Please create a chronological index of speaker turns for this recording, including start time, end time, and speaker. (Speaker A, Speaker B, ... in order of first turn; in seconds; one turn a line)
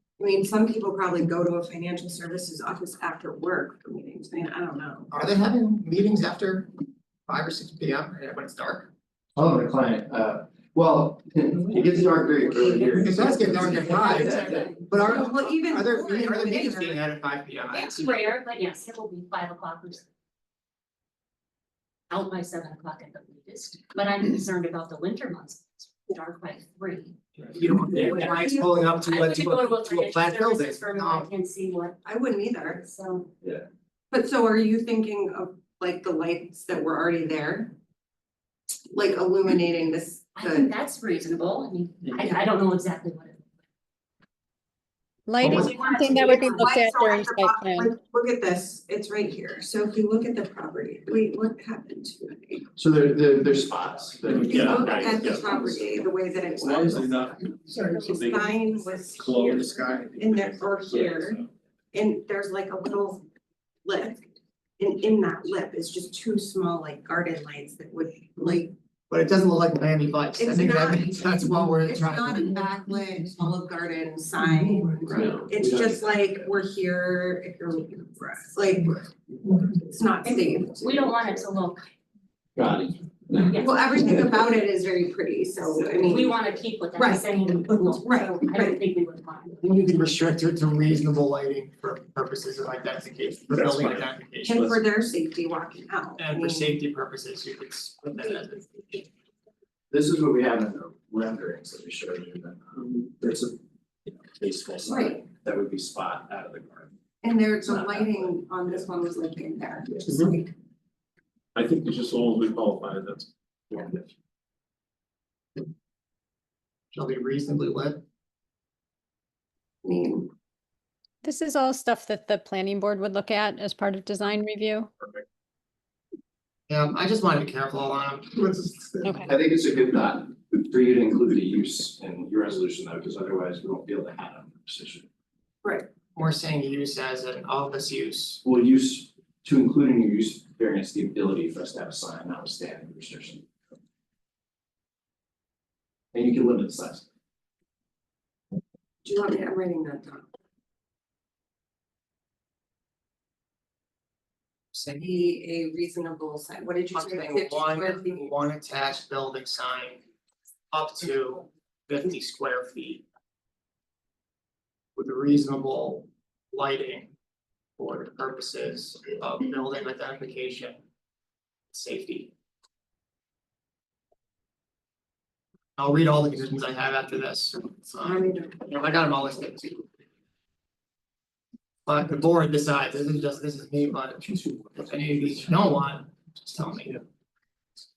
Speaker A: 0.2-5.1
Speaker B: 5.1-6.7
Speaker B: 7.3-8.9
Speaker C: 9.3-14.7
Speaker D: 12.2-13.0
Speaker A: 12.4-17.0
Speaker B: 13.0-18.1
Speaker D: 13.6-14.7
Speaker D: 17.7-20.1
Speaker D: 22.1-27.1
Speaker B: 27.5-31.3
Speaker C: 27.9-28.2
Speaker A: 28.0-28.8
Speaker D: 29.0-32.0
Speaker A: 32.0-32.8
Speaker D: 32.7-33.3
Speaker A: 34.1-37.7
Speaker A: 38.9-40.7
Speaker D: 40.4-43.4
Speaker E: 45.3-47.9
Speaker A: 45.4-52.7
Speaker C: 52.8-55.5
Speaker F: 54.3-55.6
Speaker A: 54.4-61.4
Speaker F: 56.7-58.5
Speaker F: 59.1-60.7
Speaker C: 60.9-61.2
Speaker A: 61.9-63.2
Speaker A: 63.8-68.7
Speaker B: 69.1-72.5
Speaker A: 70.3-79.0
Speaker C: 75.1-76.5
Speaker A: 79.7-81.3
Speaker D: 80.2-81.9
Speaker C: 82.6-83.6
Speaker D: 83.3-83.8
Speaker A: 83.6-88.8
Speaker D: 85.8-89.6
Speaker B: 89.6-94.7
Speaker F: 93.5-94.0
Speaker A: 94.4-96.8
Speaker B: 96.2-99.0
Speaker C: 99.9-103.5
Speaker C: 104.1-106.9
Speaker A: 104.8-105.2
Speaker A: 107.2-110.5
Speaker C: 107.7-108.3
Speaker F: 111.5-113.3
Speaker B: 116.9-118.0
Speaker A: 119.8-120.3
Speaker E: 121.2-124.9
Speaker B: 126.7-129.2
Speaker E: 129.0-129.3
Speaker C: 129.2-135.1
Speaker B: 136.2-138.4
Speaker C: 138.4-143.4
Speaker C: 146.1-147.1
Speaker A: 149.0-150.3
Speaker B: 154.7-155.1
Speaker A: 155.0-158.3
Speaker B: 156.9-160.0
Speaker B: 160.7-163.0
Speaker B: 164.9-167.1
Speaker B: 167.8-170.8
Speaker B: 171.7-172.3
Speaker B: 175.8-179.8
Speaker A: 177.9-178.6
Speaker B: 181.8-187.0